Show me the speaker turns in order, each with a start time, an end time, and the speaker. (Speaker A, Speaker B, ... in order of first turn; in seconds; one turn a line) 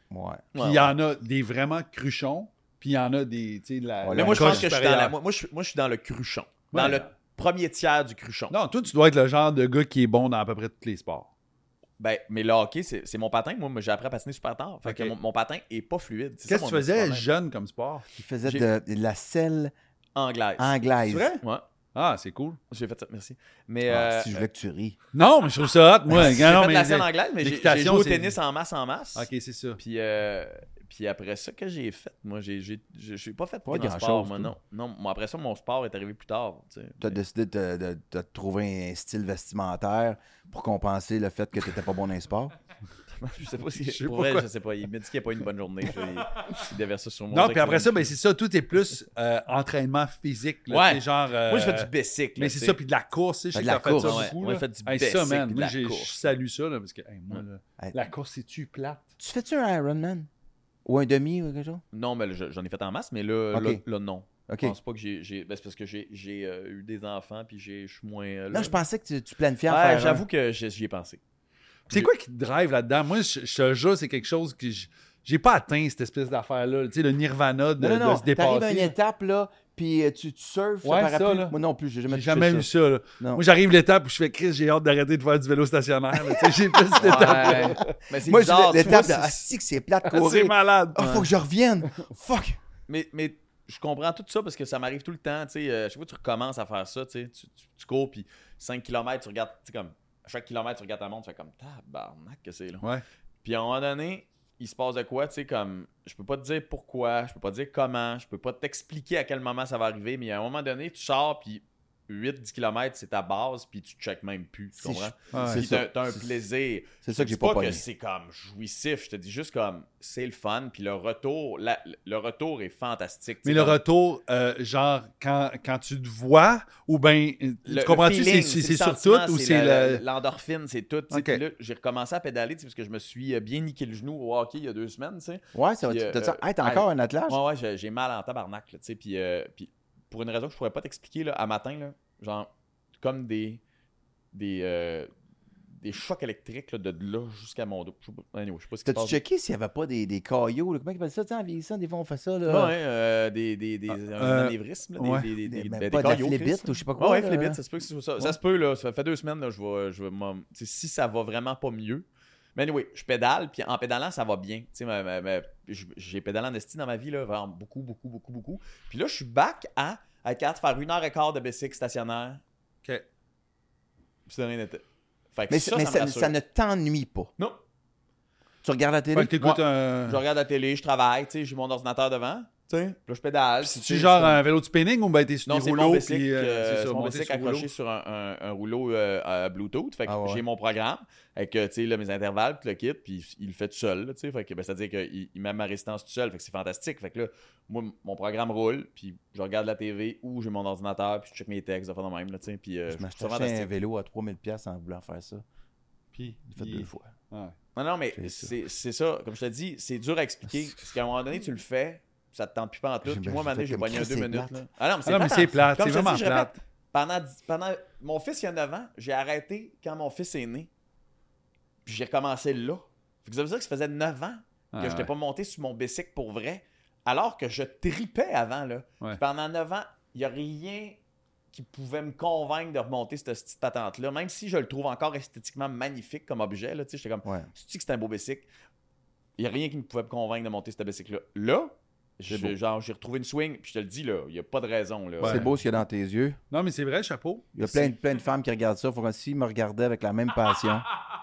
Speaker A: 0.1-0.4
Speaker B: 0.5-0.9
Speaker C: 0.6-5.1
Speaker A: 4.0-4.7
Speaker B: 4.1-8.5
Speaker C: 6.7-7.1
Speaker C: 8.5-11.3
Speaker B: 12.0-17.3
Speaker C: 14.8-15.1
Speaker C: 16.5-18.6
Speaker A: 18.1-19.7
Speaker B: 20.1-20.7
Speaker A: 20.6-21.4
Speaker C: 21.1-21.4
Speaker C: 21.9-22.6
Speaker B: 22.7-24.4
Speaker A: 23.9-25.0
Speaker C: 25.1-28.4
Speaker B: 26.1-37.2
Speaker C: 29.1-29.8
Speaker A: 33.7-34.5
Speaker A: 37.0-42.5
Speaker B: 43.2-48.1
Speaker C: 43.8-44.5
Speaker C: 47.3-59.0
Speaker B: 50.7-52.8
Speaker A: 53.5-54.3
Speaker B: 54.0-56.2
Speaker A: 59.2-60.3
Speaker A: 60.8-61.8
Speaker B: 61.9-68.8
Speaker A: 63.5-63.8
Speaker A: 64.5-64.7
Speaker A: 68.5-70.2
Speaker B: 69.7-71.2
Speaker C: 71.9-78.9
Speaker A: 77.8-83.4
Speaker C: 80.8-81.5
Speaker C: 82.1-87.9
Speaker A: 87.0-92.6
Speaker B: 87.0-89.5
Speaker C: 90.0-91.3
Speaker B: 92.9-102.9
Speaker B: 103.4-123.8
Speaker A: 114.8-116.3
Speaker C: 115.3-115.6
Speaker A: 117.0-117.8
Speaker C: 123.4-130.0
Speaker B: 127.7-143.6
Speaker C: 131.1-131.4
Speaker A: 135.5-137.4
Speaker B: 144.3-145.1
Speaker B: 145.8-149.2
Speaker A: 148.8-152.7
Speaker B: 152.4-172.4
Speaker C: 153.9-155.3
Speaker A: 155.4-157.6
Speaker B: 174.3-176.3
Speaker A: 175.5-177.3
Speaker A: 178.6-179.4
Speaker C: 179.1-180.2
Speaker B: 179.4-184.4
Speaker C: 183.6-187.7
Speaker B: 185.4-203.7
Speaker A: 190.1-190.4
Speaker A: 202.9-205.4
Speaker C: 206.1-207.5
Speaker A: 206.5-207.1
Speaker B: 207.7-220.7
Speaker A: 208.1-208.5
Speaker A: 213.0-214.6
Speaker C: 215.0-216.6
Speaker B: 221.8-231.0
Speaker C: 224.7-225.1
Speaker B: 231.5-238.5
Speaker A: 237.2-237.5
Speaker B: 239.4-245.5
Speaker A: 242.3-242.5
Speaker C: 245.2-245.5
Speaker A: 245.2-246.4
Speaker C: 246.5-247.9
Speaker A: 247.6-250.9